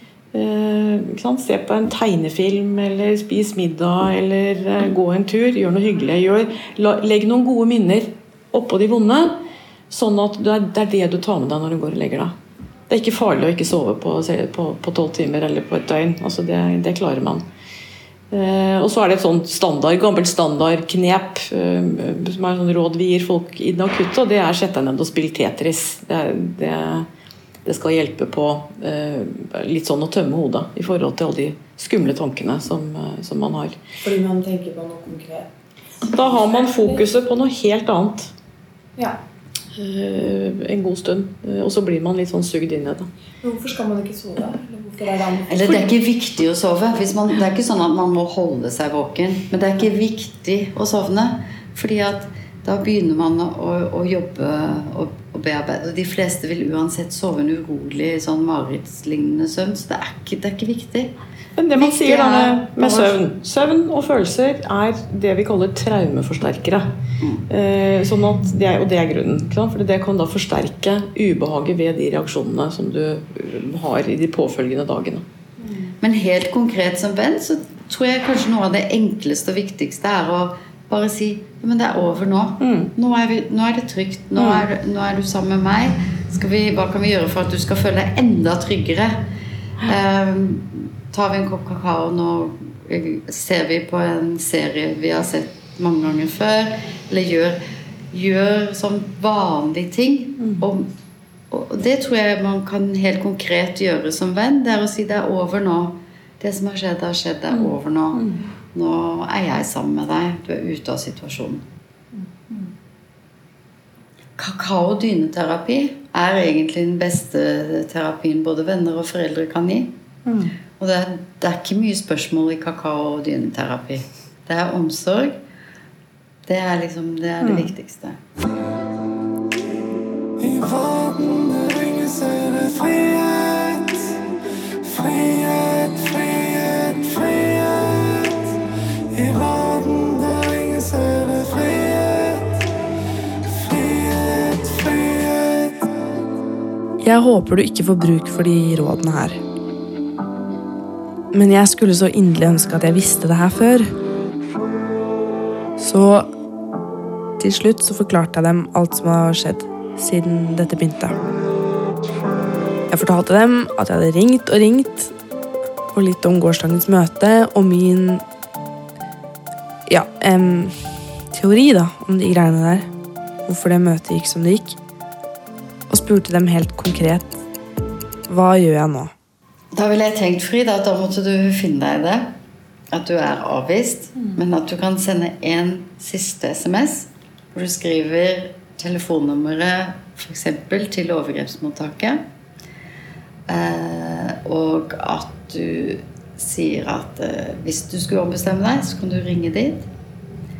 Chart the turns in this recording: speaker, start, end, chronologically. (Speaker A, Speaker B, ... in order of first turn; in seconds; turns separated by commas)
Speaker A: 0.3-9.4, Speaker A: 9.9-12.3, Speaker A: 12.9-17.4, Speaker A: 18.3-27.1, Speaker A: 27.6-33.8, Speaker B: 34.0-35.5, Speaker A: 36.0-38.3, Speaker A: 39.7-43.1, Speaker B: 43.4-45.8, Speaker C: 45.5-61.1, Speaker A: 61.6-66.9, Speaker C: 61.7-63.2, Speaker A: 67.5-75.2, Speaker C: 76.0-89.2, Speaker A: 82.6-82.9, Speaker A: 84.4-84.7, Speaker C: 89.8-97.6, Speaker C: 98.1-100.8, Speaker C: 101.5-111.6, Speaker A: 107.5-108.4, Speaker C: 114.4-119.9, Speaker A: 120.2-120.5, Speaker C: 120.8-125.4, Speaker C: 126.5-128.2, Speaker A: 127.4-127.7, Speaker D: 130.4-134.1, Speaker D: 134.8-138.3, Speaker D: 139.1-142.4, Speaker D: 143.5-145.7, Speaker B: 147.0-149.4, Speaker B: 151.3-153.9, Speaker B: 155.8-156.2, Speaker B: 157.4-161.2, Speaker B: 162.9-165.1, Speaker B: 165.9-168.2, Speaker B: 169.9-170.8, Speaker B: 171.3-172.8, Speaker B: 173.4-174.8, Speaker B: 175.9-177.4, Speaker B: 178.3-179.1, Speaker C: 179.7-182.3, Speaker C: 182.9-192.2, Speaker C: 193.5-199.8